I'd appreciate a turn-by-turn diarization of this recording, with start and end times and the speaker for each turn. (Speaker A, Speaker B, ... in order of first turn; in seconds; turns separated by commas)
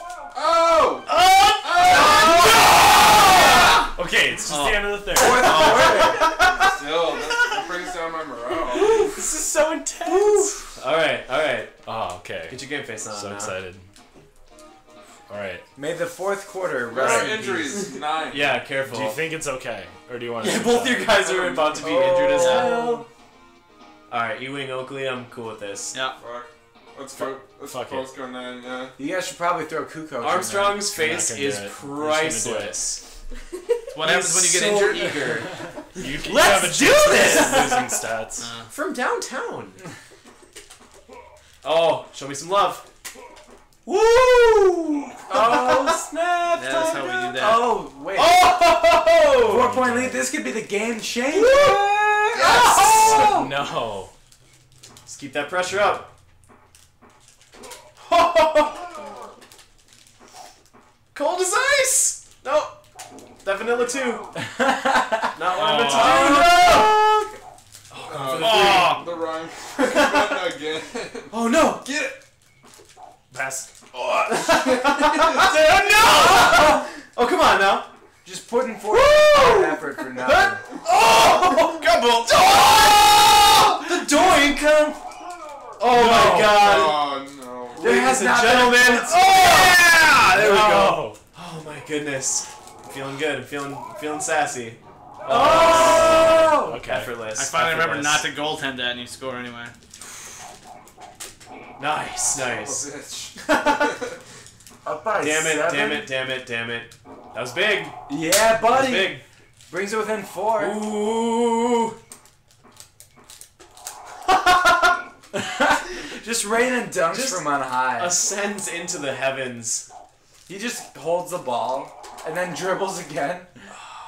Speaker A: 0.3-2.7, Speaker B: 1.1-3.8, Speaker C: 2.4-6.0, Speaker B: 4.5-6.7, Speaker D: 4.5-4.8, Speaker E: 5.2-6.2, Speaker A: 6.7-9.0, Speaker B: 8.8-11.7, Speaker C: 9.0-10.6, Speaker C: 11.8-13.8, Speaker B: 12.5-13.6, Speaker C: 15.3-15.7, Speaker E: 15.8-17.9, Speaker A: 16.9-18.6, Speaker C: 17.0-17.4, Speaker B: 18.2-19.2, Speaker C: 18.8-21.1, Speaker B: 20.4-23.0, Speaker E: 21.3-23.1, Speaker A: 21.5-22.5, Speaker B: 24.1-26.0, Speaker D: 25.9-26.2, Speaker A: 26.2-29.0, Speaker C: 27.2-28.2, Speaker E: 29.0-30.9, Speaker B: 30.2-33.0, Speaker C: 30.9-32.8, Speaker D: 33.9-35.4, Speaker B: 34.0-35.6, Speaker C: 36.0-38.5, Speaker B: 36.2-38.0, Speaker E: 36.3-37.4, Speaker D: 38.4-38.7, Speaker B: 38.7-39.8, Speaker B: 41.6-42.8, Speaker B: 43.9-46.0, Speaker E: 45.3-48.4, Speaker D: 46.5-47.7, Speaker B: 48.1-49.7, Speaker C: 49.4-50.3, Speaker E: 49.5-53.5, Speaker B: 51.3-53.5, Speaker C: 53.0-54.1, Speaker B: 55.1-56.1, Speaker B: 58.0-58.9, Speaker B: 61.1-62.8, Speaker B: 63.4-64.3, Speaker E: 64.5-67.3, Speaker B: 65.3-67.1, Speaker D: 65.5-66.5, Speaker B: 67.9-69.0, Speaker A: 68.0-72.2, Speaker D: 68.4-69.1, Speaker B: 69.9-70.5, Speaker B: 71.3-71.9, Speaker C: 73.3-73.7, Speaker A: 74.0-76.2, Speaker B: 74.3-77.9, Speaker E: 76.1-76.8, Speaker E: 78.2-80.6, Speaker B: 78.9-85.0, Speaker B: 85.8-87.2, Speaker C: 85.9-86.4, Speaker A: 86.0-87.9, Speaker E: 87.7-89.6, Speaker B: 87.8-98.3, Speaker C: 90.2-91.2, Speaker E: 95.3-96.8, Speaker C: 96.6-97.1, Speaker D: 97.3-99.7, Speaker B: 101.8-102.9, Speaker A: 102.4-104.2, Speaker B: 103.4-103.9, Speaker E: 104.8-106.1, Speaker B: 105.2-108.0, Speaker E: 108.1-110.8, Speaker B: 108.7-109.2, Speaker B: 110.6-112.0, Speaker B: 114.3-115.0, Speaker E: 115.3-118.2, Speaker B: 117.1-119.9, Speaker E: 120.5-123.5